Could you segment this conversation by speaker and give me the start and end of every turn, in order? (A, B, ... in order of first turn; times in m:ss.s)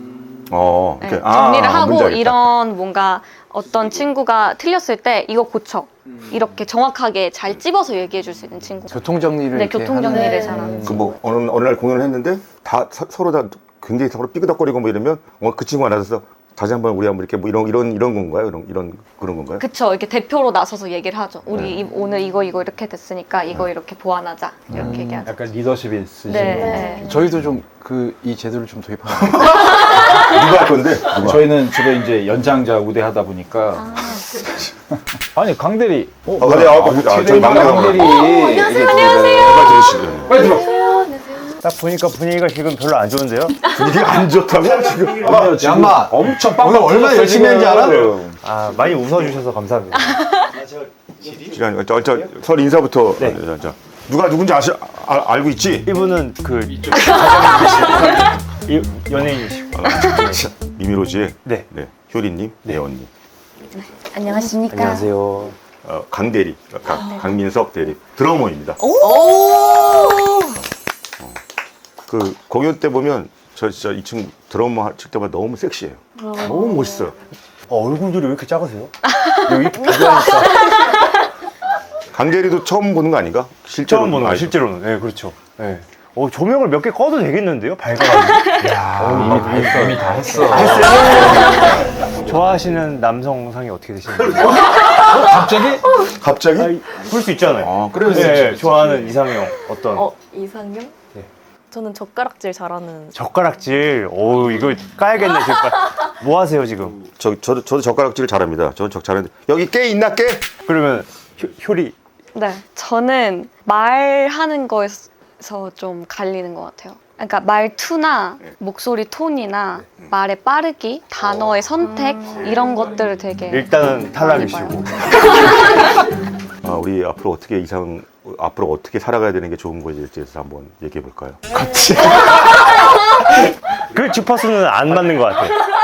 0:00.5-0:02.5 A
0:01.0-0:11.1 B
0:08.9-0:11.1 C
0:10.0-0:10.8 D
0:10.8-0:19.6 A
0:19.6-0:25.4 B
0:21.5-0:21.8 A
0:24.7-0:26.9 E
0:24.8-0:25.2 C
0:26.3-0:27.1 B
0:26.3-0:27.1 D
0:26.6-0:29.6 C
0:30.0-0:31.5 A
0:31.1-0:33.9 E
0:33.8-0:34.3 B
0:35.3-0:39.7 E
0:36.4-0:38.3 A
0:37.9-0:40.2 B
0:39.3-0:40.4 A
0:40.3-0:40.7 E
0:40.3-0:41.6 D
0:41.6-0:43.7 F
0:43.6-0:45.5 A
0:44.6-0:45.3 F
0:45.2-0:48.4 E
0:45.4-0:48.2 C
0:47.7-0:51.6 F
0:49.9-0:50.5 B
0:51.5-0:55.9 A
0:55.9-1:00.4 F
0:56.9-0:58.3 B
0:59.7-1:03.1 A
0:59.9-1:00.3 B
1:03.7-1:05.1 B
1:04.7-1:05.6 F
1:05.8-1:08.8 A
1:06.9-1:07.2 D
1:08.8-1:09.1 B
1:08.8-1:10.6 D
1:12.1-1:17.2 A
1:16.2-1:17.0 D
1:16.4-1:16.8 F
1:17.7-1:18.9 F
1:19.1-1:21.1 B
1:19.5-1:20.3 E
1:19.6-1:20.6 F
1:22.1-1:24.6 A
1:23.8-1:31.7 F
1:28.4-1:28.7 B
1:28.6-1:31.5 E
1:31.2-1:31.7 D
1:32.2-1:34.7 F
1:34.2-1:34.8 A
1:34.7-1:36.1 D
1:35.1-1:35.8 E
1:36.0-1:36.7 A
1:36.6-1:40.1 F
1:37.6-1:38.7 A
1:39.7-1:40.9 D
1:41.7-1:43.2 D
1:43.1-1:47.0 F
1:47.2-1:50.5 A
1:50.6-1:51.9 F
1:52.3-2:05.7 B
2:03.5-2:05.4 F
2:06.6-2:12.2 A
2:13.9-2:15.6 F